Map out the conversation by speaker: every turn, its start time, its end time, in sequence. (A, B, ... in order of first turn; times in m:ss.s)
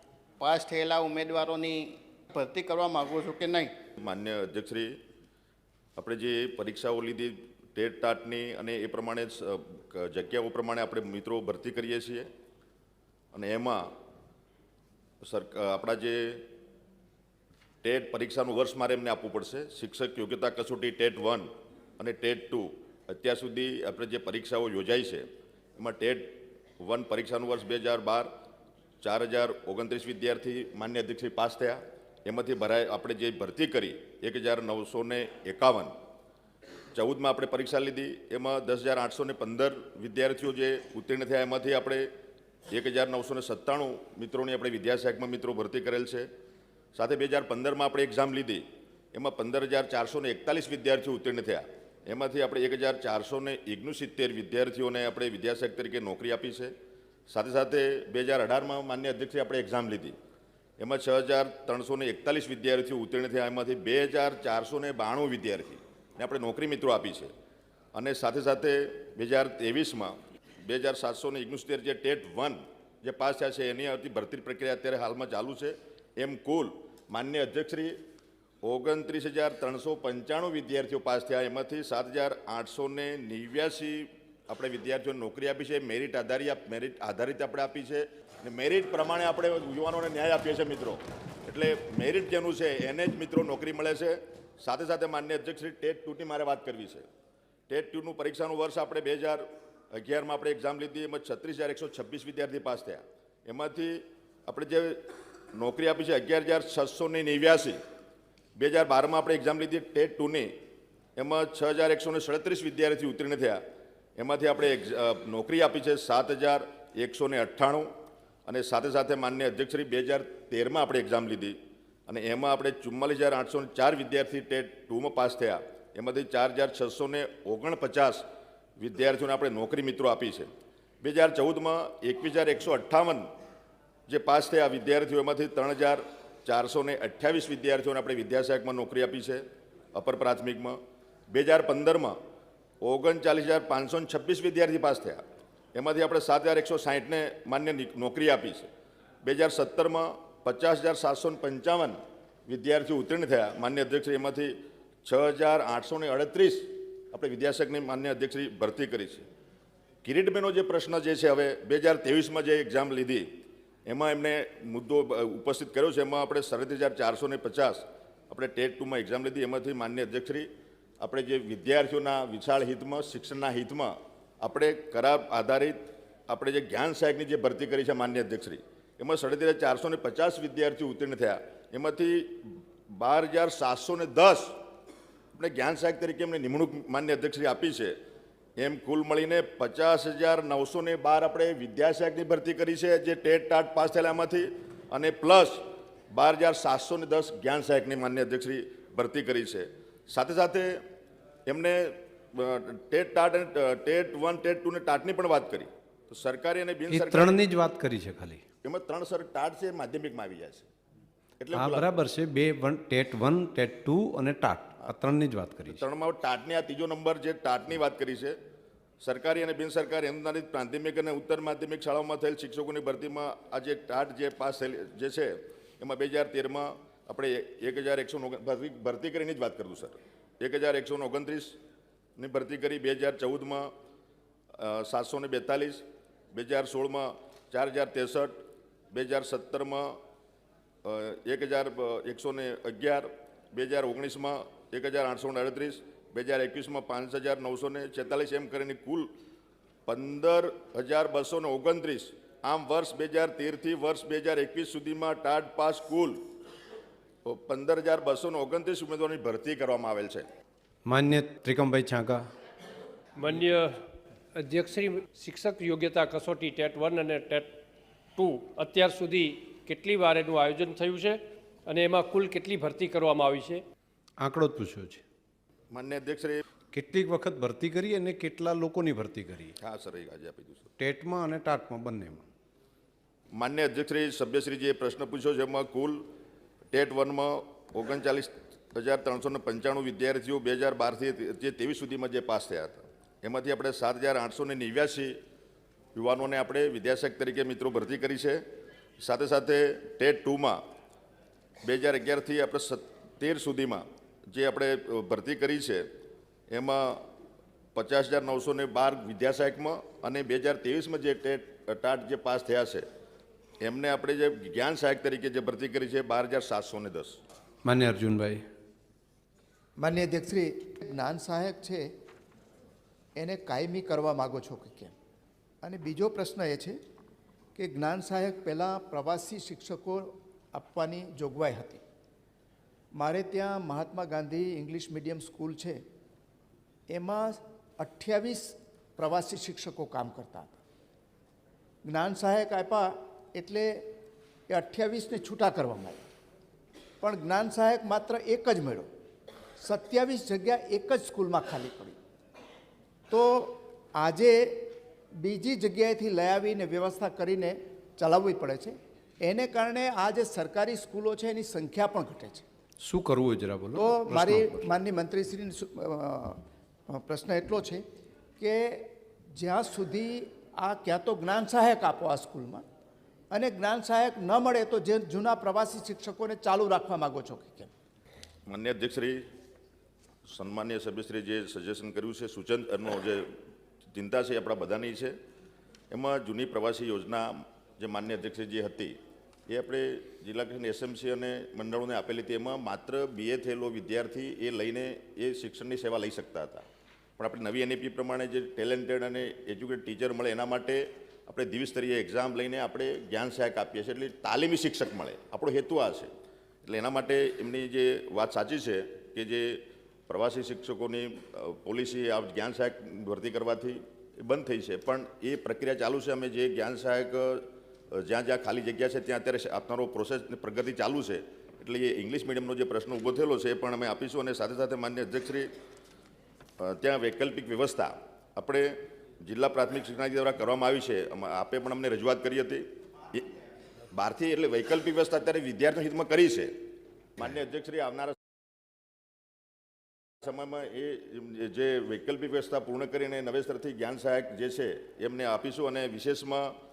0:00.4-0:03.8 A
0:04.0-0:04.9 B
0:06.0-0:12.3 B
0:13.3-0:13.9 B
0:15.2-0:16.5 B
0:17.8-0:25.3 B
0:25.8-0:28.3 B
0:29.0-0:35.9 B
0:37.0-0:42.1 B
0:42.7-0:46.3 B
0:47.0-0:56.7 B
0:57.3-1:00.2 B
1:00.8-1:07.3 B
1:07.9-1:18.0 B
1:18.6-1:37.1 B
1:37.7-1:45.0 B
1:45.5-1:47.8 B
1:48.6-1:50.5 B
1:51.2-1:53.6 B
1:54.2-1:57.9 B
1:58.5-2:01.6 B
2:02.1-2:08.2 B
2:08.8-2:10.5 B
2:11.0-2:13.3 B
2:14.1-2:19.4 B
2:19.9-2:20.8 B
2:21.3-2:22.2 B
2:22.8-2:25.2 B
2:25.8-2:28.7 B
2:29.2-2:39.3 B
2:40.0-2:43.3 B
2:43.9-2:50.5 B
2:51.0-3:04.6 B
3:05.4-3:08.0 B
3:08.6-3:20.8 B
3:21.5-3:27.4 B
3:26.9-3:28.4 C
3:28.6-3:30.7 B
3:31.4-3:31.8 B
3:31.5-3:35.8 C
3:35.7-3:38.4 B
3:39.0-3:51.6 B
3:52.2-3:53.7 B
3:54.6-3:58.3 B
3:58.9-3:59.9 B
4:00.8-4:09.1 B
4:09.9-4:16.2 B
4:17.2-4:20.3 B
4:20.9-4:22.3 C
4:23.2-4:23.8 D
4:24.4-4:27.5 D
4:28.2-4:33.6 D
4:34.2-4:35.0 C
4:35.7-4:36.4 B
4:36.7-4:39.6 C
4:39.6-4:40.7 B
4:40.8-4:42.2 C
4:43.4-4:46.0 B
4:46.7-4:55.2 B
4:56.0-4:58.4 B
4:59.0-5:00.6 B
5:01.6-5:05.9 B
5:06.5-5:07.0 B
5:07.8-5:12.8 B
5:13.6-5:17.2 B
5:17.6-5:18.4 C
5:19.8-5:21.9 E
5:23.2-5:24.9 E
5:25.6-5:26.8 E
5:27.6-5:31.8 E
5:32.9-5:35.8 E
5:36.9-5:40.6 E
5:41.8-5:43.8 E
5:44.5-5:46.0 E
5:47.0-5:48.9 E
5:49.6-5:52.0 E
5:53.1-6:02.4 E
6:02.8-6:04.6 C
6:03.8-6:07.8 E
6:08.4-6:12.6 E
6:13.3-6:17.7 E
6:18.5-6:19.2 B
6:20.3-6:23.3 B
6:23.9-6:25.1 B
6:25.9-6:29.0 B
6:29.5-6:36.6 B
6:37.2-6:46.1 B
6:46.7-7:05.5 B
7:06.6-7:08.7 B
7:09.2-7:13.2 B
7:13.9-7:16.6 B
7:17.2-7:18.2 B
7:20.2-7:26.5 B